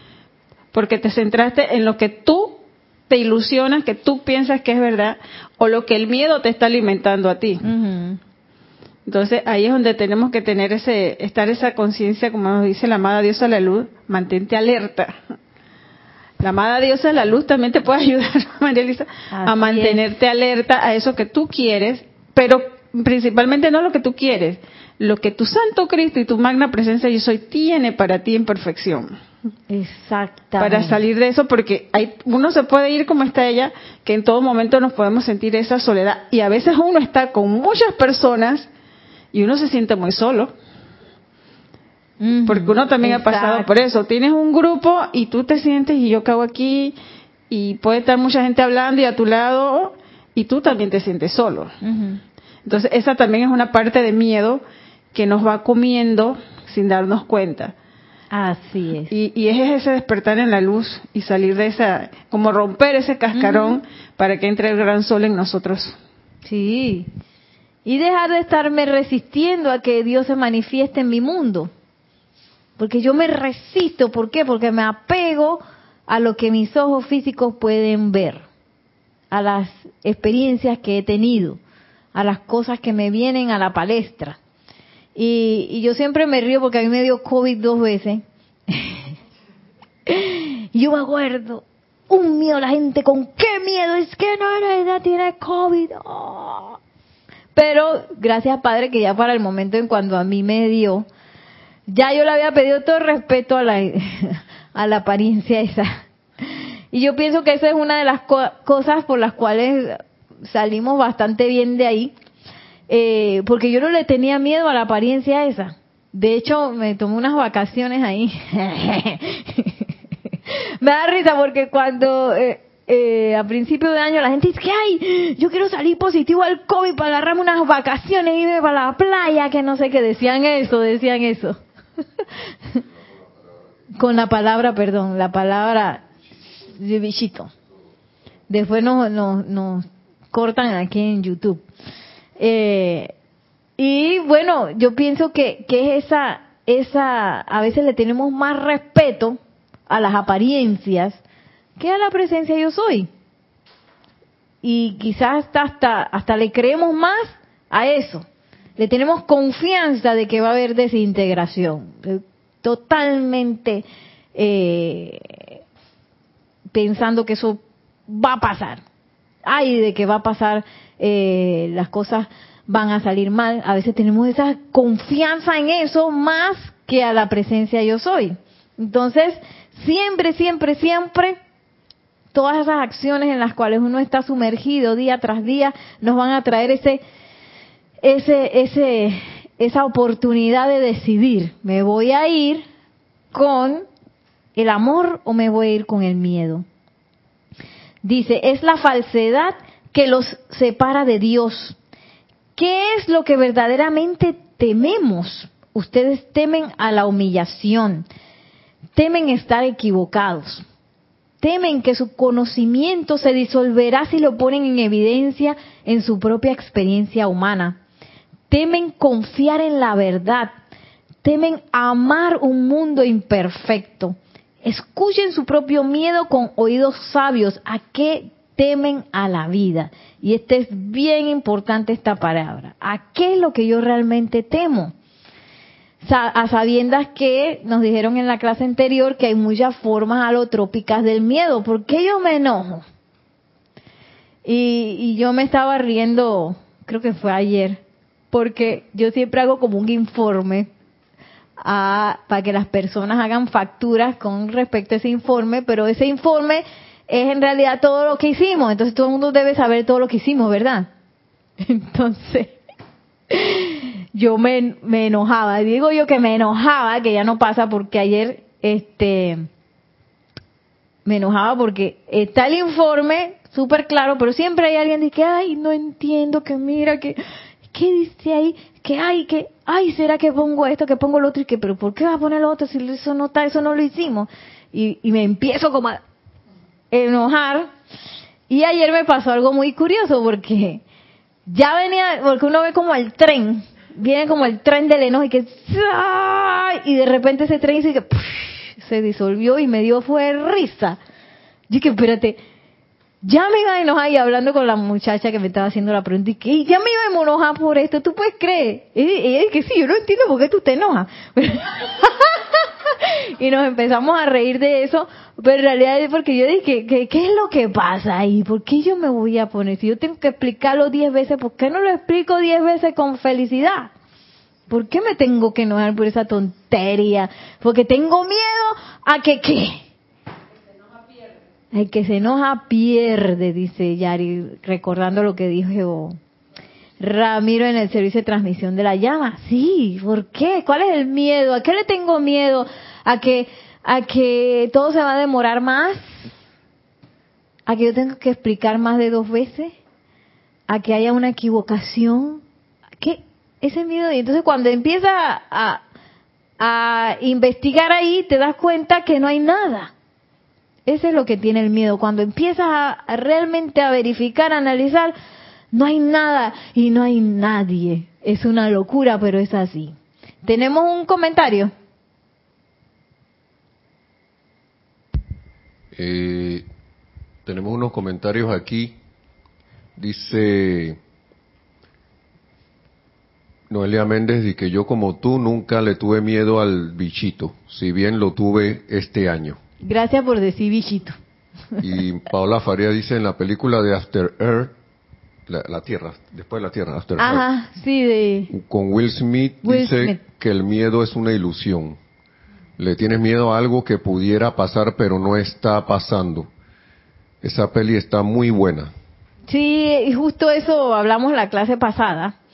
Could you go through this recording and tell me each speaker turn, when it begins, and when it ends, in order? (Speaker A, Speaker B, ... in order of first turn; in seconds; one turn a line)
Speaker A: 0.7-7.6
Speaker B: 7.6-8.2
Speaker A: 9.1-15.2
Speaker A: 16.4-29.1
Speaker B: 19.3-20.0
Speaker B: 29.7-31.0
Speaker A: 30.6-38.7
Speaker A: 39.3-40.5
Speaker B: 42.2-43.7
Speaker A: 42.5-47.0
Speaker A: 47.5-51.7
Speaker B: 51.8-52.2
Speaker A: 52.6-54.6
Speaker A: 55.1-57.7
Speaker B: 58.3-59.1
Speaker A: 59.1-66.0
Speaker B: 63.3-63.8
Speaker B: 66.4-67.1
Speaker B: 67.8-71.7
Speaker B: 72.8-78.4
Speaker B: 79.3-81.6
Speaker B: 82.1-84.4
Speaker B: 85.2-89.0
Speaker B: 90.1-96.8
Speaker B: 97.5-101.1
Speaker B: 101.9-112.1
Speaker B: 112.9-119.8
Speaker B: 120.5-131.6
Speaker B: 134.0-136.1
Speaker B: 136.7-137.5
Speaker B: 138.5-141.6
Speaker B: 142.4-143.1
Speaker B: 143.8-149.4
Speaker B: 149.9-151.2
Speaker B: 151.8-153.1
Speaker B: 154.6-158.2
Speaker B: 158.8-165.4
Speaker B: 166.7-168.8
Speaker B: 169.4-181.4
Speaker B: 182.3-187.0
Speaker B: 188.0-192.6
Speaker B: 193.3-193.8
Speaker B: 194.5-196.6
Speaker B: 198.0-201.8
Speaker B: 202.6-208.1
Speaker B: 208.9-210.6
Speaker B: 211.4-217.8
Speaker B: 218.5-220.5
Speaker B: 221.2-234.9
Speaker B: 236.0-242.8
Speaker B: 244.4-247.8
Speaker B: 248.3-250.7
Speaker B: 251.6-260.9
Speaker B: 261.6-262.6
Speaker B: 263.3-269.4
Speaker B: 271.0-277.2
Speaker B: 277.7-286.0
Speaker B: 286.9-287.7
Speaker B: 288.5-290.8
Speaker B: 291.4-301.0
Speaker B: 301.7-302.4
Speaker B: 303.2-323.9
Speaker B: 324.7-329.8
Speaker B: 331.7-336.2
Speaker B: 337.0-346.1
Speaker B: 347.7-349.7
Speaker B: 350.7-352.4
Speaker B: 353.0-355.8
Speaker B: 356.6-359.9
Speaker B: 360.9-365.1
Speaker B: 365.7-371.7
Speaker C: 375.9-376.6
Speaker C: 377.4-378.9
Speaker C: 380.0-381.0
Speaker C: 383.7-389.6
Speaker B: 389.8-391.1
Speaker C: 391.8-394.7
Speaker C: 395.5-397.4
Speaker B: 397.2-398.5
Speaker C: 398.5-402.0
Speaker B: 399.6-400.2
Speaker C: 402.8-406.5
Speaker C: 407.4-408.9
Speaker B: 409.5-412.4